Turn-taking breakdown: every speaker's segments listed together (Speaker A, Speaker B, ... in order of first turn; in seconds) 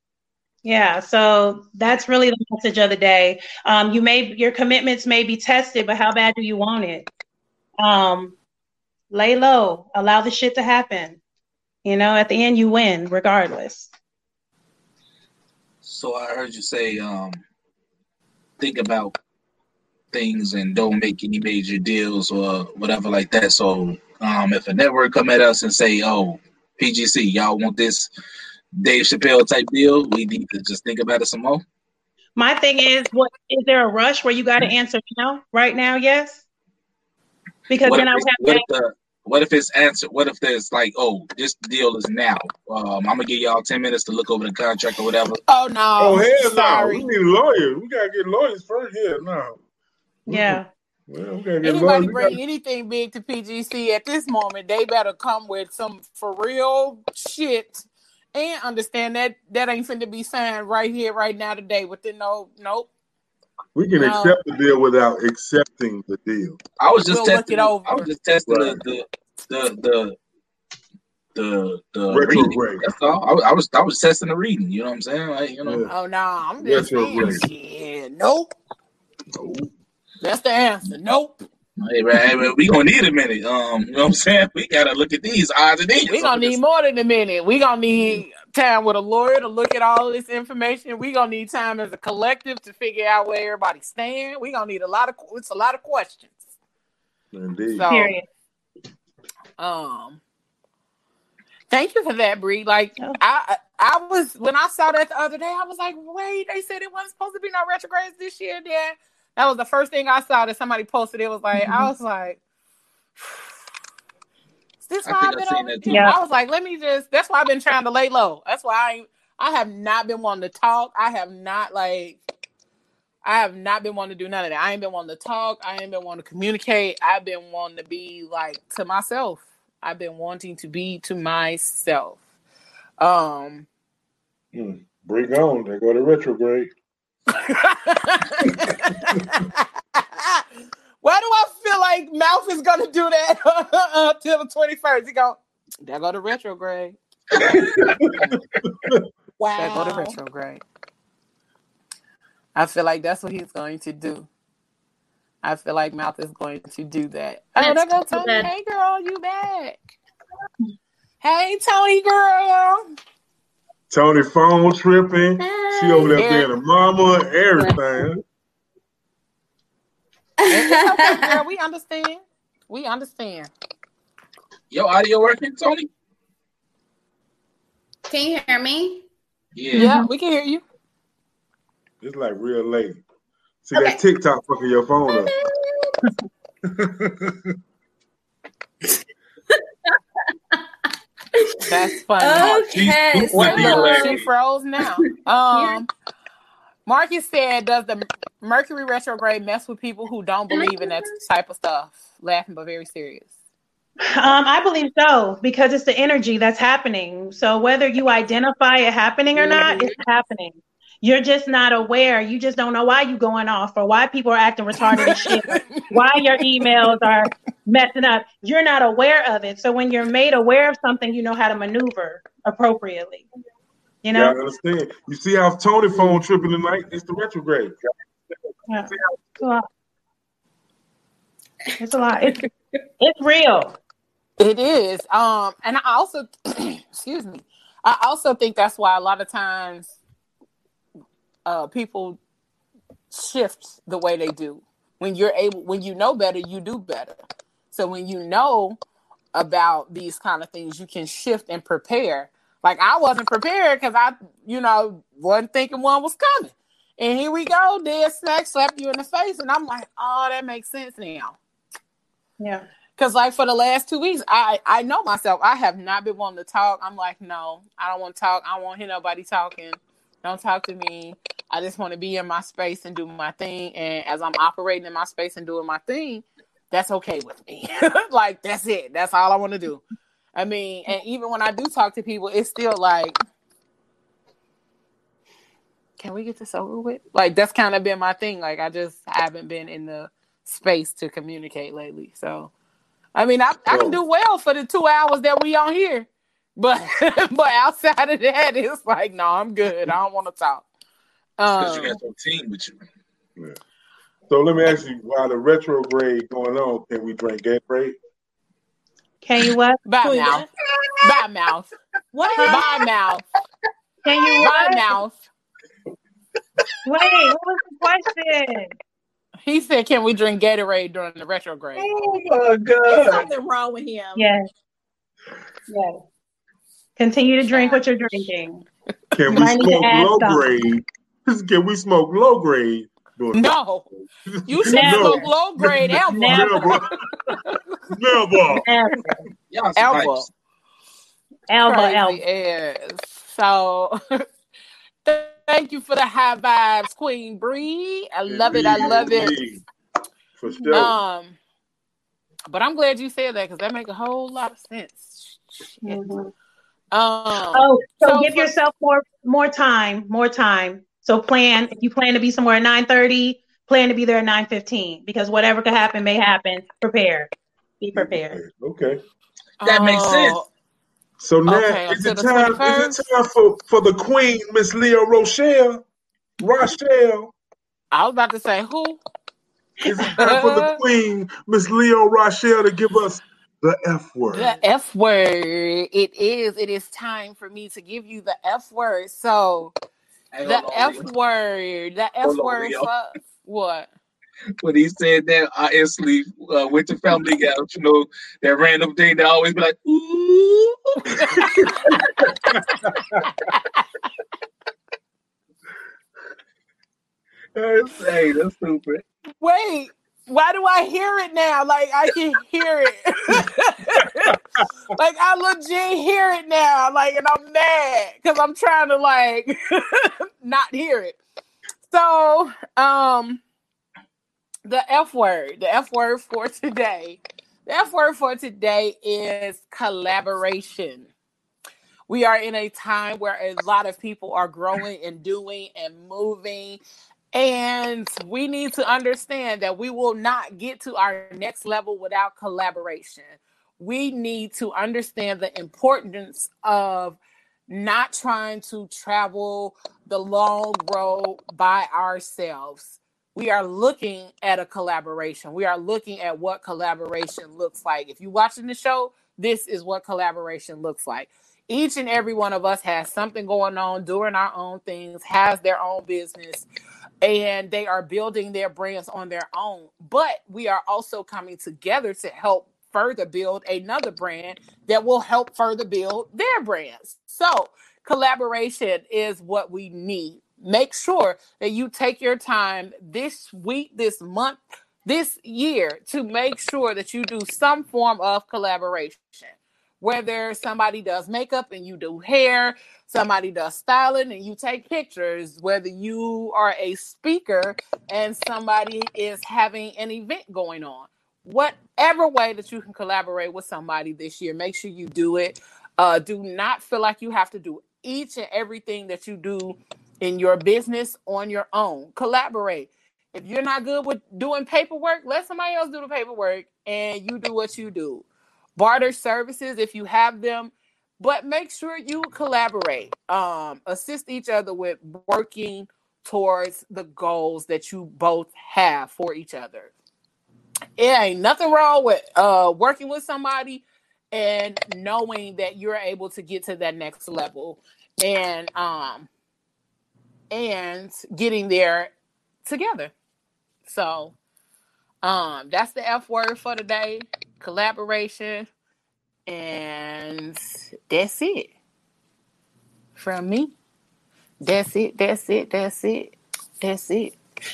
Speaker A: 0.6-7.1, 7.8-8.4, 9.1-11.2, 11.8-13.9, 32.4-36.4, 37.7-38.6, 50.3-50.7, 97.9-98.2, 111.6-111.9, 115.9-116.2, 179.8-180.0, 204.1-223.3, 224.0-224.4, 228.7-229.7, 231.8-232.4, 233.0-233.8, 262.4-262.6, 309.2-310.4, 314.0-315.0, 316.9-318.7, 324.1-324.5, 325.7-326.0, 327.0-328.6, 329.3-330.4, 334.7-335.3, 336.1-336.8, 338.6-339.2, 341.5-342.2, 355.8-356.3, 357.5-368.4
Speaker B: 15.8-17.4, 18.6-19.1, 20.1-28.1, 28.8-31.6, 37.8-45.4, 66.8-70.2, 71.3-75.8, 81.8-86.6, 115.0-116.1, 147.5-148.0, 174.7-175.9, 179.6-179.9, 192.7-194.3, 301.5-302.8, 321.8-323.3, 339.5-340.3, 369.6-370.4, 390.3-391.1, 392.2-392.9, 394.6-402.0, 407.9-409.0
Speaker C: 45.5-47.1, 51.6-62.9, 64.0-64.4, 67.1-68.1, 75.9-78.5, 80.2-81.4, 86.1-96.4, 97.7-98.2, 99.6-100.2, 101.7-112.4, 114.8-122.2, 123.2-132.2, 133.0-133.7, 137.3-140.4, 141.0-147.0, 149.5-150.6, 152.6-154.3, 155.4-159.9, 161.2-162.8, 166.2-166.5, 170.5-173.5, 179.7-180.6, 191.7-192.7, 193.3-195.9, 196.9-203.3, 214.9-215.8, 234.4-239.9, 241.5-242.2, 243.1-247.2, 247.7-248.8, 249.3-261.4, 263.0-279.8, 280.4-283.2, 286.0-292.5, 293.1-300.7, 301.4-301.9, 309.9-310.5, 311.0-311.7, 312.4-313.2, 314.4-315.2, 319.4-322.0, 327.5-327.8, 333.3-333.9, 334.5-336.8, 339.8-340.3, 341.6-344.2, 345.1-349.4, 350.7-351.4, 352.5-356.0, 356.9-358.5, 369.6-370.5, 371.5-373.0, 377.9-379.0, 380.2-380.8, 384.3-389.7, 390.4-393.9, 401.1-401.4, 403.4-403.8, 409.4-414.4, 414.9-421.2, 421.9-423.4, 424.7-431.1, 432.1-436.8, 437.3-466.7, 467.2-518.3, 518.8-529.9, 531.0-539.3, 540.5-542.1, 542.6-543.1, 543.9-544.4, 545.2-548.7, 549.5-551.7, 553.2-553.7, 554.6-557.4
Speaker D: 46.0-49.6, 50.3-52.4, 63.8-66.6, 68.5-68.8, 72.1-72.9, 75.6-75.9, 76.6-77.4, 79.3-79.7, 97.3-97.9, 134.5-136.7, 163.9-168.2, 182.0-183.0, 183.7-185.3, 224.1-227.8, 293.7-294.0, 304.3-308.0, 329.1-333.6, 334.3-336.9, 337.9-338.7, 348.3-349.6, 350.4-350.9, 367.9-369.0, 371.2-375.8, 376.4-377.3, 379.8-384.6, 407.6-408.1
Speaker E: 149.4-150.2, 312.1-312.7, 322.9-324.3, 327.5-328.1
Speaker F: 157.6-158.5, 165.4-166.2, 167.5-168.0, 170.5-171.4, 178.1-179.0, 183.7-184.0, 185.1-186.0, 191.7-194.1, 195.0-195.8, 200.5-201.1, 209.4-210.0